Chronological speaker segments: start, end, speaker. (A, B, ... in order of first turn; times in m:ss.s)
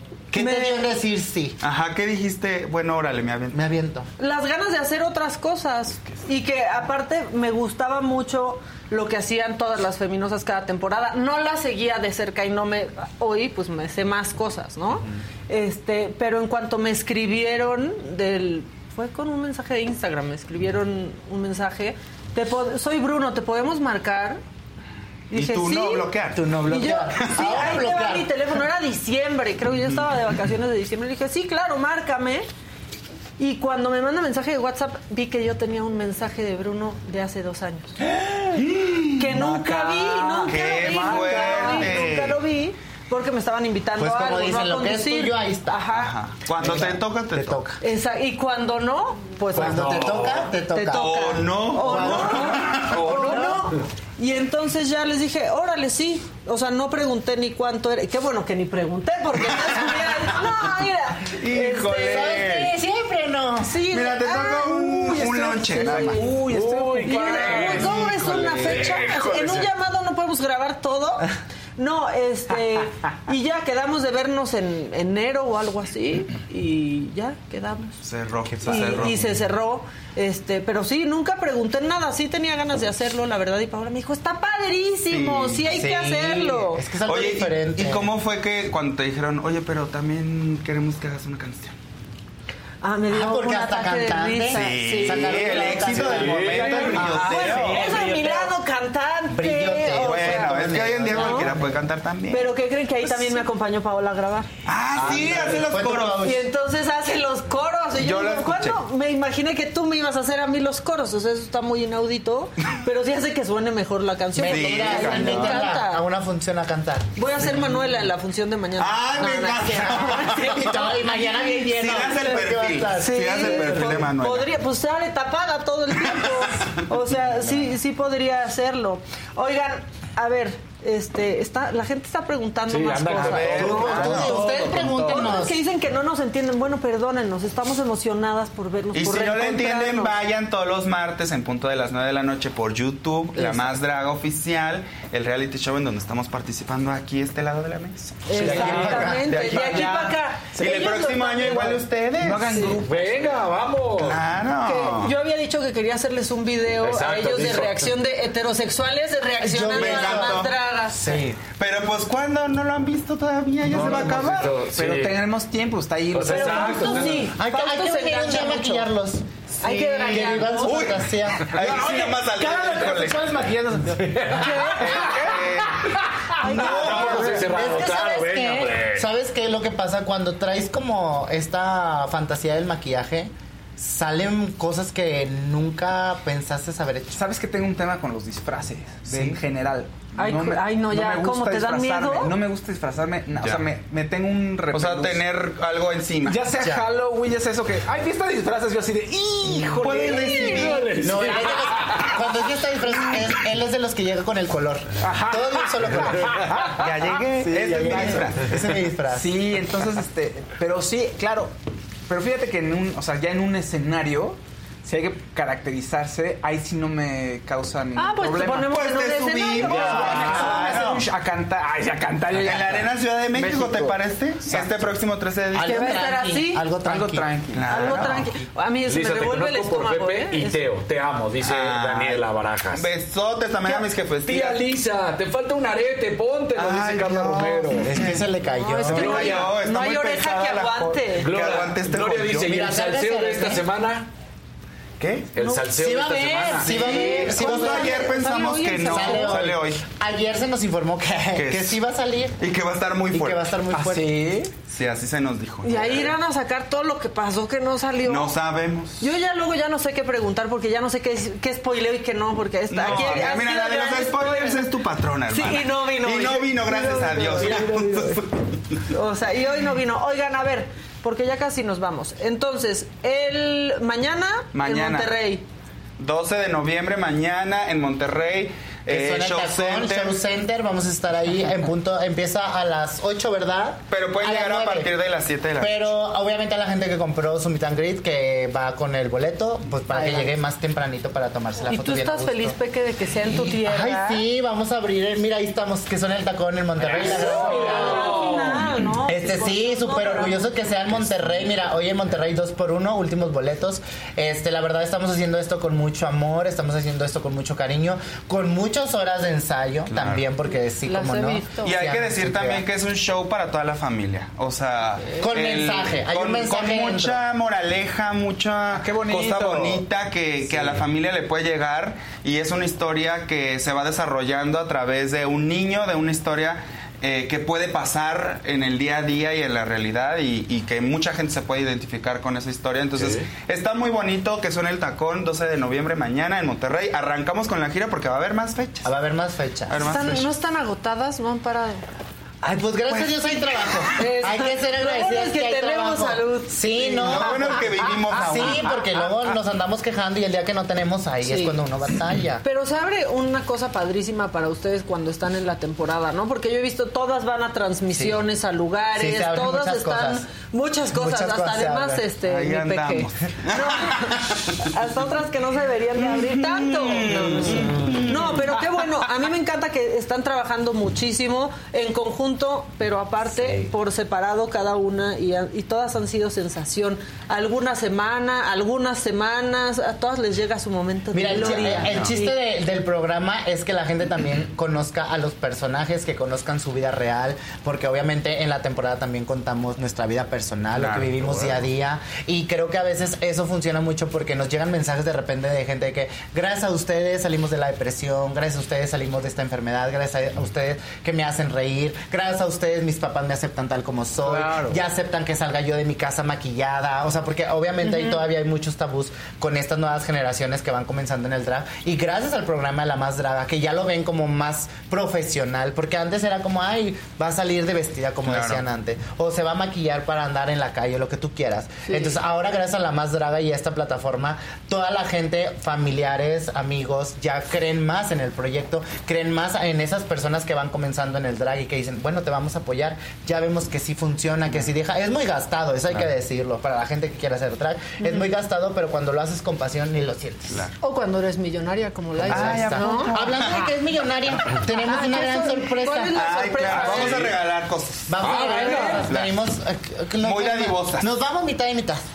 0:00.3-0:01.6 A
0:00.3-0:00.9 B
0:01.6-0:03.6 C
0:03.5-0:04.1 A
0:04.2-0:24.4 B
0:25.3-0:26.1 B
0:25.3-0:26.5 C
0:26.3-0:28.3 A
0:26.6-0:32.5 B
0:27.2-0:27.7 C
0:33.4-0:38.0 B
0:38.5-0:42.4 C
0:39.2-0:46.1 B
0:40.3-0:41.8 D
0:44.0-0:45.9 A
0:45.9-0:47.7 C
0:46.6-0:47.8 A
0:47.8-1:02.6 B
0:49.5-0:51.2 A
0:49.5-0:50.5 E
0:50.9-0:53.2 C
0:51.7-0:53.7 A
0:53.0-0:53.6 E
0:59.8-1:00.1 C
1:01.2-1:02.7 C
1:02.1-1:03.8 A
1:03.6-1:06.3 B
1:03.8-1:06.2 C
1:05.2-1:08.0 D
1:06.2-1:08.0 E
1:07.0-1:18.0 B
1:07.8-1:09.0 C
1:08.6-1:09.6 E
1:18.0-1:19.4 C
1:18.5-1:19.2 A
1:18.6-1:26.8 B
1:25.1-1:25.7 C
1:25.7-1:28.1 A
1:27.0-1:31.7 C
1:32.8-1:36.0 B
1:33.1-1:37.3 A
1:34.5-1:37.9 C
1:36.0-1:38.4 E
1:36.4-1:38.3 D
1:36.7-1:41.6 B
1:39.3-1:41.8 A
1:39.9-1:42.5 C
1:42.3-1:44.5 B
1:43.0-1:43.4 C
1:44.6-1:46.2 C
1:45.0-1:46.4 A
1:45.0-1:45.6 E
1:45.1-1:45.3 D
1:46.1-1:56.0 B
1:47.9-1:48.8 C
1:54.4-1:57.1 A
1:54.4-1:55.7 C
1:57.2-2:02.3 B
1:58.8-2:00.9 C
1:59.3-2:03.9 A
2:01.5-2:04.5 C
2:02.9-2:20.2 B
2:06.1-2:06.4 C
2:12.7-2:15.4 E
2:13.1-2:14.5 C
2:13.5-2:15.6 A
2:18.9-2:32.8 C
2:23.4-2:23.6 A
2:28.2-2:31.8 B
2:28.4-2:29.0 D
2:28.4-2:29.2 E
2:28.4-2:29.4 A
2:32.2-2:33.5 D
2:32.8-2:34.2 E
2:34.0-2:35.2 C
2:34.6-2:41.0 B
2:36.8-2:38.0 E
2:39.4-2:41.4 A
2:39.7-2:40.6 C
2:41.4-2:44.5 C
2:43.7-2:45.2 E
2:43.7-2:47.2 D
2:46.1-2:47.3 E
2:46.3-2:48.9 B
2:47.3-2:51.5 A
2:49.6-2:50.9 B
2:49.6-2:53.4 C
2:51.5-2:55.2 D
2:53.5-2:59.1 E
2:54.3-2:55.3 B
2:54.8-2:55.9 C
2:56.4-2:57.8 B
2:56.5-3:07.2 A
2:56.6-2:57.6 C
3:07.1-3:15.2 D
3:09.1-3:09.4 A
3:10.2-3:12.4 B
3:13.4-3:13.6 C
3:14.7-3:16.5 C
3:16.2-3:21.5 D
3:16.5-3:16.8 A
3:19.7-3:21.1 C
3:20.1-3:20.8 B
3:20.9-3:22.1 E
3:21.0-3:26.4 A
3:25.0-3:28.5 D
3:26.1-3:26.7 E
3:26.8-3:28.6 C
3:27.6-3:29.3 A
3:29.1-3:31.5 D
3:32.1-3:38.9 D
3:38.0-3:40.8 B
3:38.7-3:41.1 C
3:39.6-3:44.8 D
3:39.6-3:40.6 E
3:41.7-3:42.7 E
3:42.4-3:46.0 C
3:45.5-3:47.4 A
3:45.6-3:46.7 B
3:46.8-3:47.8 D
3:47.5-3:48.3 C
3:47.7-3:50.6 B
3:48.9-3:52.9 E
3:51.4-3:54.7 C
3:54.2-3:57.9 E
3:56.5-3:58.3 C
3:57.8-3:59.3 A
3:58.5-4:01.3 B
3:58.8-4:02.6 C
3:58.9-3:59.5 E
4:01.2-4:04.1 E
4:02.4-4:03.6 A
4:05.0-4:05.3 C
4:05.3-4:07.0 E
4:05.7-4:08.1 A
4:06.6-4:09.8 C
4:06.7-4:09.4 B
4:08.8-4:12.4 A
4:11.3-4:11.8 C
4:12.4-4:13.4 C
4:13.1-4:14.1 A
4:13.7-4:14.5 D
4:14.6-4:16.1 C
4:15.6-4:18.3 B
4:18.0-4:19.1 C
4:19.0-4:24.7 B
4:22.7-4:28.4 C
4:25.3-4:28.2 B
4:28.8-4:35.4 B
4:34.5-4:35.2 C
4:36.0-4:40.2 C
4:38.9-4:44.9 A
4:43.9-4:45.9 C
4:45.6-4:52.6 A
4:49.9-4:50.3 B
4:51.6-4:54.2 B
4:53.2-4:58.2 A
4:56.8-4:58.7 E
4:57.0-5:00.5 B
4:59.0-5:12.6 A
5:09.9-5:10.2 C
5:10.8-5:11.7 B
5:11.5-5:38.9 C
5:15.2-5:17.2 A
5:18.7-5:19.8 D
5:38.8-5:39.8 A
5:39.7-5:40.3 C
5:39.8-5:41.8 B
5:42.4-5:52.4 A
5:42.9-5:43.9 C
5:44.0-5:48.9 B
5:47.0-5:48.8 C
5:51.2-5:51.6 B
5:52.4-6:22.4 B
5:57.9-5:58.2 A
5:58.9-6:00.3 A
6:00.9-6:02.1 A
6:02.2-6:04.7 C
6:06.0-6:08.6 C
6:21.1-7:20.7 A
6:21.4-6:22.2 C
6:30.7-6:31.6 C
6:47.8-6:48.2 B
6:58.2-6:58.6 C
7:01.9-7:02.1 B
7:18.0-7:18.3 B
7:20.8-7:23.1 B
7:22.2-7:27.2 A
7:22.3-7:23.7 C
7:24.7-7:27.3 B
7:26.1-7:29.4 C
7:28.1-7:32.0 A
7:28.2-7:28.9 E
7:28.3-7:29.0 D
7:28.4-7:29.0 B
7:30.2-7:31.1 C